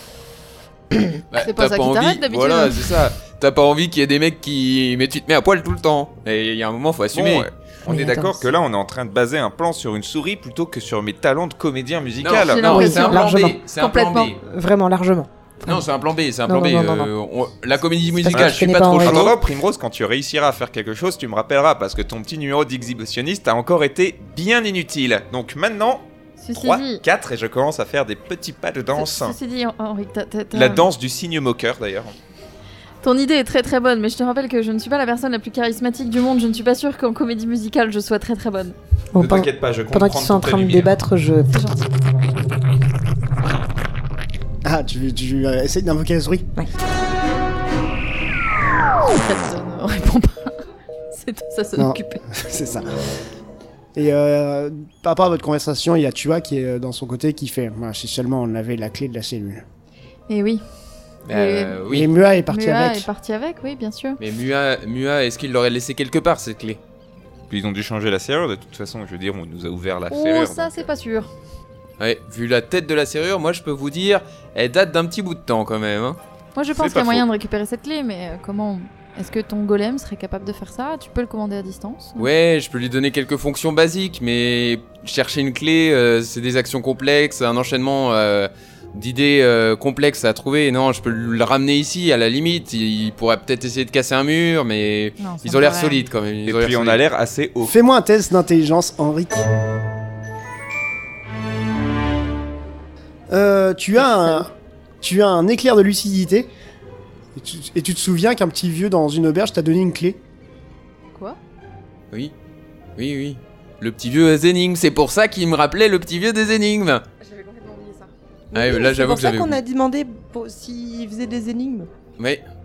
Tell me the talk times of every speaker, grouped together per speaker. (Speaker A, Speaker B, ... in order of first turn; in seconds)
Speaker A: 1.3-7.5, 12.2-14.4, 15.7-19.3, 61.3-62.1, 64.2-66.8, 72.0-76.2, 82.2-97.0, 113.0-117.0, 118.5-119.6, 122.2-122.4
Speaker B: 1.3-3.0, 12.4-14.3, 26.4-27.0, 28.9-30.9, 33.0-38.8, 41.5-41.8, 49.0-52.2, 60.3-60.6, 61.3-61.8, 62.5-64.2, 70.1-71.3, 76.5-82.3, 95.2-96.0, 104.0-104.4, 111.1-111.4, 117.2-118.1
Speaker C: 7.1-12.8, 18.3-29.4, 30.5-32.1, 39.2-40.9, 67.5-70.9, 76.7-77.2, 96.4-97.7
Speaker D: 7.9-8.5, 12.6-13.6, 14.4-15.9, 16.4-17.1, 18.2-19.4, 39.1-41.5, 118.5-121.9
Speaker E: 44.6-46.5, 51.8-52.9, 53.9-59.6, 61.9-63.1, 97.6-99.5, 103.3-104.5, 105.0-106.5, 107.3-110.2